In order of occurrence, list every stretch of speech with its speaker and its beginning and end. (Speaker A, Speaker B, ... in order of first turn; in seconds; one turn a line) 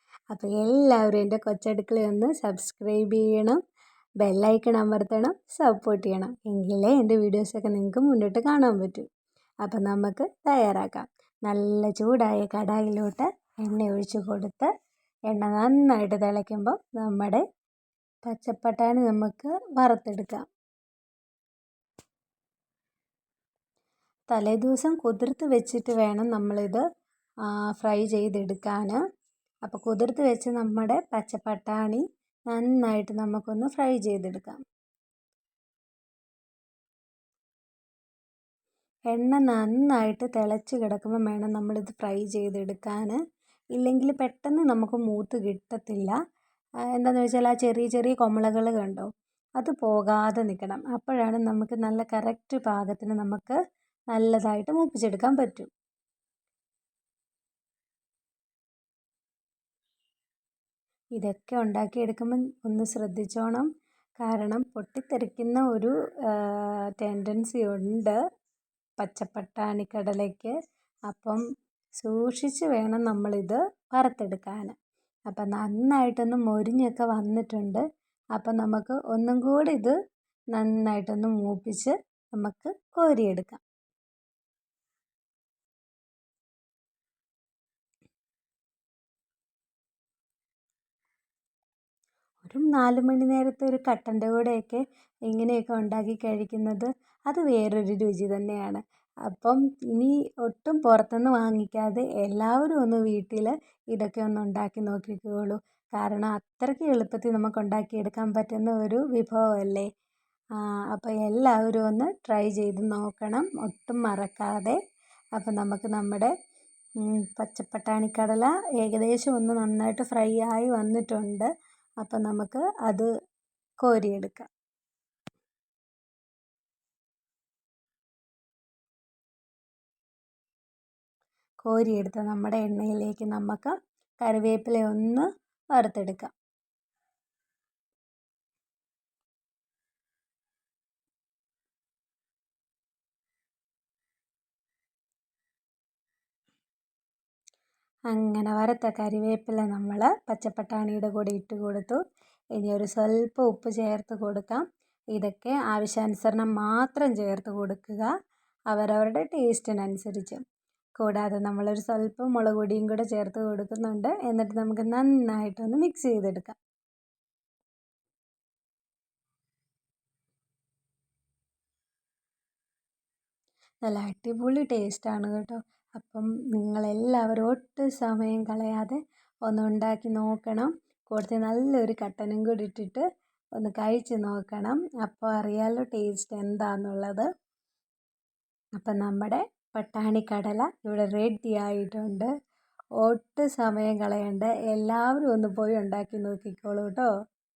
Speaker A: 0.3-3.6
Speaker A: 4.2-9.1
Speaker A: 9.6-14.7
Speaker A: 15.3-17.4
Speaker A: 18.2-20.4
Speaker A: 24.3-26.8
Speaker A: 27.5-29.0
Speaker A: 29.7-34.6
Speaker A: 39.1-43.2
Speaker A: 43.7-46.2
Speaker A: 46.9-49.1
Speaker A: 49.6-53.5
Speaker A: 54.1-55.7
Speaker A: 61.1-68.2
Speaker A: 69.0-70.5
Speaker A: 71.1-71.4
Speaker A: 72.0-74.8
Speaker A: 75.3-77.8
Speaker A: 78.3-80.0
Speaker A: 80.5-83.6
Speaker A: 92.4-109.9
Speaker A: 110.6-114.8
Speaker A: 115.4-116.3
Speaker A: 117.0-121.5
Speaker A: 122.0-123.1
Speaker A: 123.8-124.5
Speaker A: 131.6-136.3
Speaker A: 148.1-152.0
Speaker A: 152.6-154.6
Speaker A: 155.1-158.1
Speaker A: 158.7-160.4
Speaker A: 161.0-166.6
Speaker A: 173.8-183.0
Speaker A: 183.6-187.3
Speaker A: 188.8-192.3
Speaker A: 193.0-197.1